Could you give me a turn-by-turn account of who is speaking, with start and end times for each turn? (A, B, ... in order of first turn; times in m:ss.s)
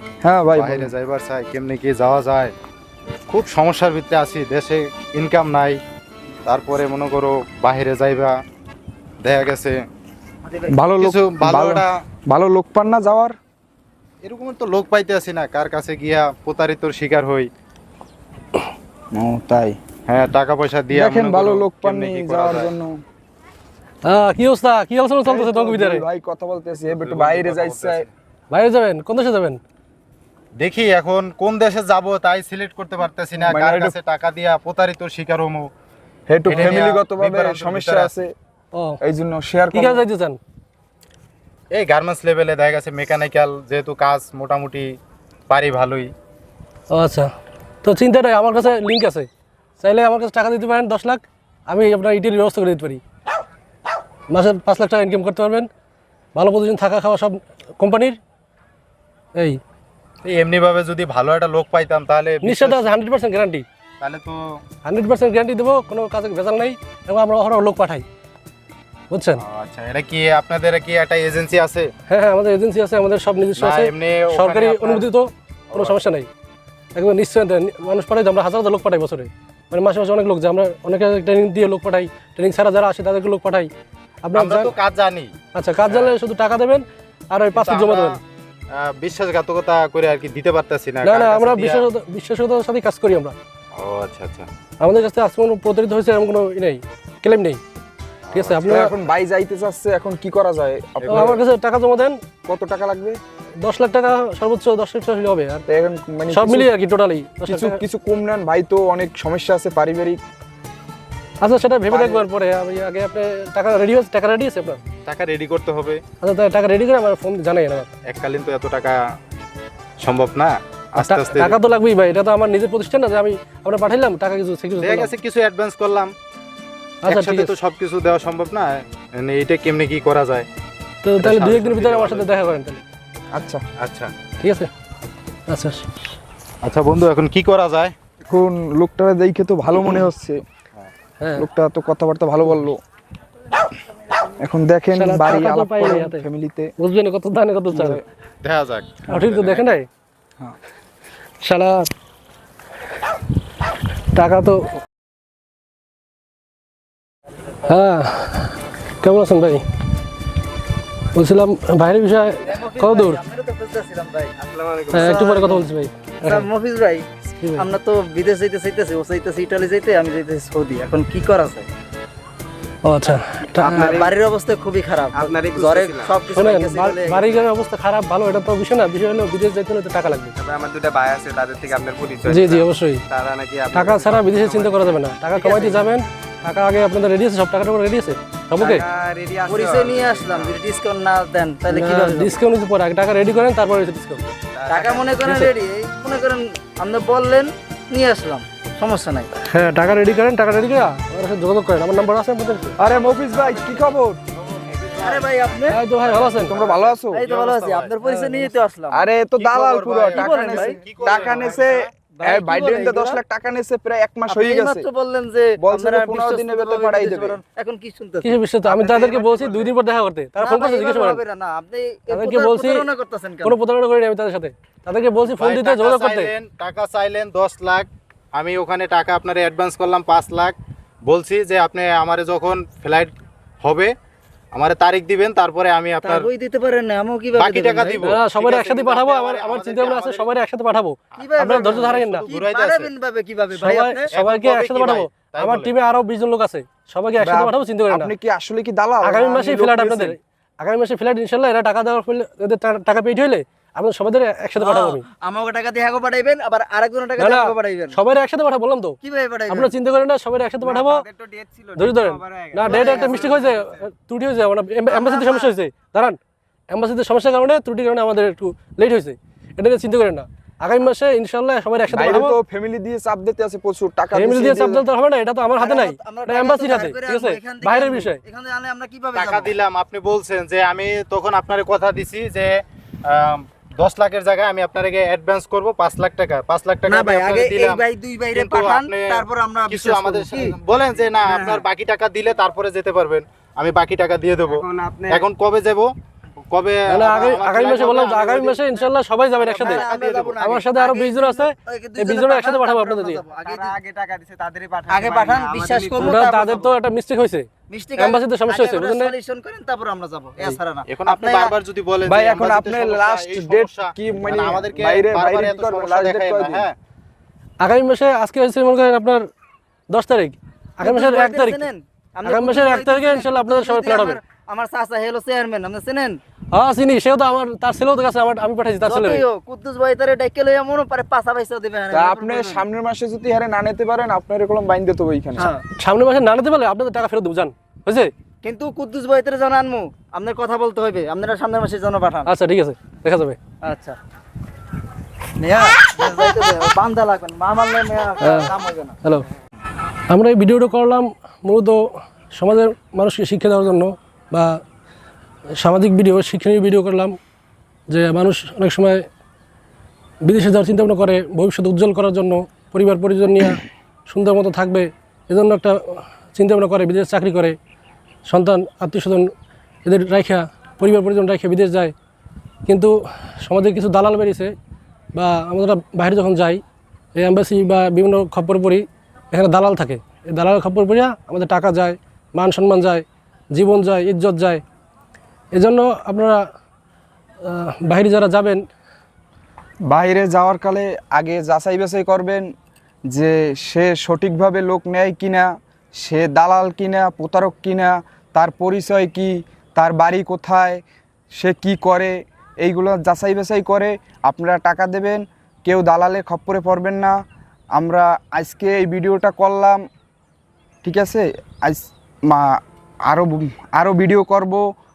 0:00.2-0:00.9 A
0:00.6-0:02.5 B
0:03.3-0:05.8 B
0:06.5-0:08.4 B
0:09.2-0:09.8 B
0:10.5-0:10.8 C
0:10.7-0:13.4 A
0:11.0-0:11.9 B
0:14.2-0:17.5 B
0:19.2-0:19.8 A
0:20.1-0:22.7 B
0:20.9-0:23.0 A
0:24.0-0:26.0 D
0:25.2-0:28.1 A
0:26.8-0:28.1 B
0:28.5-0:29.6 D
0:30.6-0:35.7 B
0:33.5-0:34.0 A
0:36.3-0:38.3 A
0:36.5-0:38.1 B
0:36.5-0:36.8 D
0:38.7-0:39.0 D
0:39.0-0:40.1 A
0:39.7-0:40.4 D
0:41.7-0:44.9 B
0:45.5-0:46.1 B
0:46.9-0:47.3 D
0:47.8-0:49.3 D
0:49.8-0:53.0 D
0:54.3-0:55.7 D
0:56.4-0:58.2 D
0:59.4-0:59.6 D
1:00.3-1:02.8 B
1:02.4-1:03.6 D
1:04.0-1:04.6 B
1:04.8-1:08.1 D
1:09.1-1:09.4 D
1:09.4-1:11.9 B
1:12.1-1:16.3 D
1:13.6-1:15.1 B
1:15.7-1:16.0 B
1:17.0-1:23.7 D
1:24.3-1:24.7 D
1:24.3-1:25.3 B
1:25.5-1:28.2 D
1:25.9-1:26.1 B
1:27.6-1:28.2 B
1:28.7-1:31.8 B
1:31.0-1:33.4 D
1:33.8-1:34.5 B
1:34.8-1:37.6 D
1:38.3-1:38.6 B
1:38.3-1:38.9 D
1:38.6-1:41.4 A
1:41.0-1:41.4 B
1:41.1-1:42.2 D
1:42.5-1:43.2 A
1:43.6-1:45.6 D
1:45.7-1:46.7 A
1:46.3-1:47.8 D
1:47.4-1:50.2 A
1:51.4-1:54.8 D
1:51.9-1:52.3 A
1:55.0-1:56.0 B
1:56.2-1:57.9 D
1:58.1-1:59.0 B
2:00.0-2:01.6 B
2:01.0-2:05.1 D
2:04.8-2:06.1 B
2:07.0-2:07.5 D
2:07.1-2:10.5 B
2:11.0-2:12.8 D
2:11.2-2:12.3 B
2:13.3-2:13.6 A
2:13.8-2:14.1 B
2:14.4-2:14.7 D
2:15.5-2:15.8 D
2:16.6-2:17.9 B
2:18.3-2:20.4 A
2:21.2-2:21.5 D
2:21.4-2:22.8 A
2:24.3-2:26.7 A
2:24.9-2:26.3 D
2:26.8-2:28.0 D
2:27.7-2:28.0 A
2:28.4-2:29.8 B
2:29.1-2:29.9 D
2:31.4-2:31.9 D
2:34.1-2:34.7 D
2:37.6-2:39.6 D
2:41.1-2:43.2 D
2:42.4-2:44.4 C
2:44.4-2:45.1 E
2:44.9-2:46.5 D
2:44.9-2:51.7 C
2:47.4-2:47.7 D
2:52.8-2:54.0 D
2:53.6-2:54.1 E
2:53.7-2:57.5 C
2:55.1-2:56.2 E
2:56.3-3:00.4 D
3:00.4-3:04.7 E
3:02.2-3:03.0 D
3:03.7-3:08.9 D
3:05.4-3:05.9 C
3:08.6-3:10.6 E
3:09.5-3:12.4 C
3:11.7-3:14.3 D
3:14.6-3:15.2 E
3:14.7-3:19.3 C
3:15.2-3:15.5 D
3:19.4-3:22.8 D
3:22.8-3:24.2 A
3:24.4-3:25.3 B
3:25.0-3:25.8 C
3:25.7-3:26.5 D
3:26.0-3:28.0 B
3:26.4-3:27.3 A
3:27.1-3:29.0 C
3:28.2-3:28.5 D
3:28.9-3:34.9 A
3:29.4-3:31.8 B
3:30.1-3:33.2 C
3:34.3-3:39.7 C
3:35.6-3:37.4 A
3:38.2-3:41.2 D
3:40.4-3:43.6 C
3:42.1-3:42.9 D
3:43.4-3:46.3 D
3:45.3-3:53.9 B
3:54.5-3:56.3 B
3:56.0-3:58.1 C
3:57.4-4:00.3 B
3:58.0-4:02.3 D
4:01.2-4:02.9 B
4:01.2-4:04.1 C
4:03.5-4:08.1 D
4:04.1-4:05.7 B
4:07.2-4:10.2 A
4:09.0-4:15.0 D
4:14.6-4:18.0 C
4:17.2-4:21.0 D
4:19.0-4:19.7 C
4:20.6-4:23.9 E
4:21.8-4:26.2 D
4:22.6-4:23.4 C
4:24.9-4:25.5 C
4:26.7-4:32.4 D
4:31.9-4:34.8 A
4:34.1-4:38.2 D
4:35.6-4:39.5 C
4:39.1-4:47.8 B
4:46.9-4:50.6 C
4:48.3-4:55.9 B
4:54.5-4:55.2 E
4:56.5-4:58.7 B
4:56.9-4:59.8 D
4:59.4-5:00.4 B
4:59.5-5:03.8 C
5:00.4-5:03.2 D
5:03.3-5:06.6 E
5:04.9-5:06.7 C
5:06.0-5:07.5 D
5:07.7-5:11.5 C
5:08.0-5:09.1 D
5:10.9-5:16.8 B
5:12.0-5:16.7 A
5:17.6-5:19.2 D
5:19.9-5:21.7 D
5:20.8-5:26.2 C
5:22.2-5:24.2 D
5:26.5-5:29.2 D
5:28.8-5:32.6 C
5:31.9-5:35.5 A
5:35.4-5:35.6 C
5:35.8-5:38.1 D
5:38.4-5:42.3 C
5:42.3-5:43.4 D
5:43.6-5:44.0 C
5:45.4-5:49.0 C
5:48.2-5:49.3 D
5:50.1-5:54.6 D
5:55.6-5:57.2 D
5:57.9-5:59.0 D
6:00.2-6:07.6 D
6:08.3-6:09.3 D
6:09.8-6:11.9 D
6:12.7-6:14.5 D
6:15.1-6:16.6 D
6:17.2-6:24.6 D
6:25.5-6:26.4 D
6:27.4-6:28.6 D
6:29.9-6:32.5 A
6:33.1-6:40.8 A
6:41.4-6:47.2 A
6:47.8-6:49.8 A
6:50.8-6:52.6 A
6:53.1-6:54.6 A